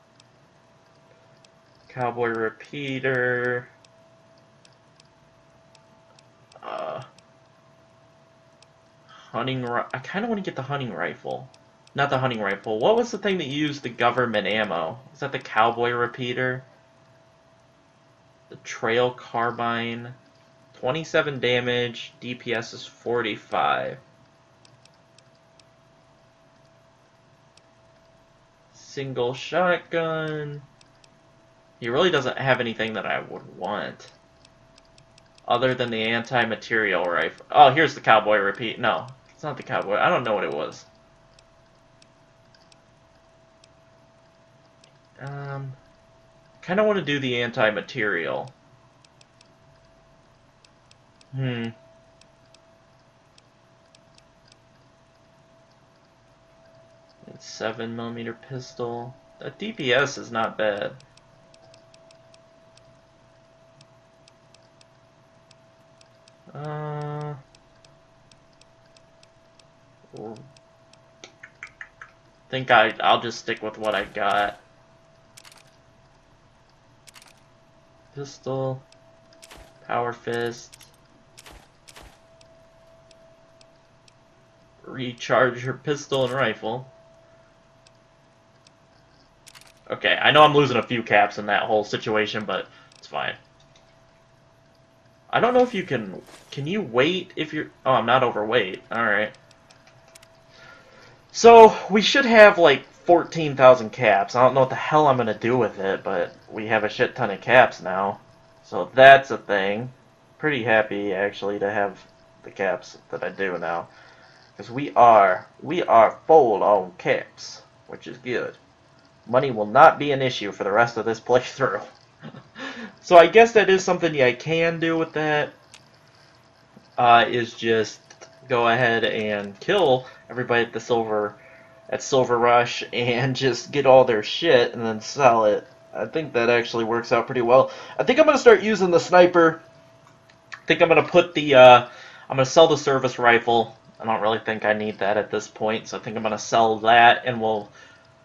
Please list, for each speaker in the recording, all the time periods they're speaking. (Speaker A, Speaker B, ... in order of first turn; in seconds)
Speaker A: 1.9-3.7, 6.6-7.1, 9.1-16.6, 18.5-20.1, 20.7-24.0, 28.7-30.6, 31.8-34.1, 35.5-40.9, 45.2-45.8, 46.6-48.5, 51.3-51.7, 57.2-61.0, 66.5-67.4, 70.1-70.4, 72.5-74.6, 78.1-78.8, 79.8-80.9, 84.8-86.9, 89.9-93.4, 95.3-99.3, 101.3-113.9, 114.6-118.6, 119.2-121.8, 122.6-125.5, 127.0-139.6, 140.7-147.7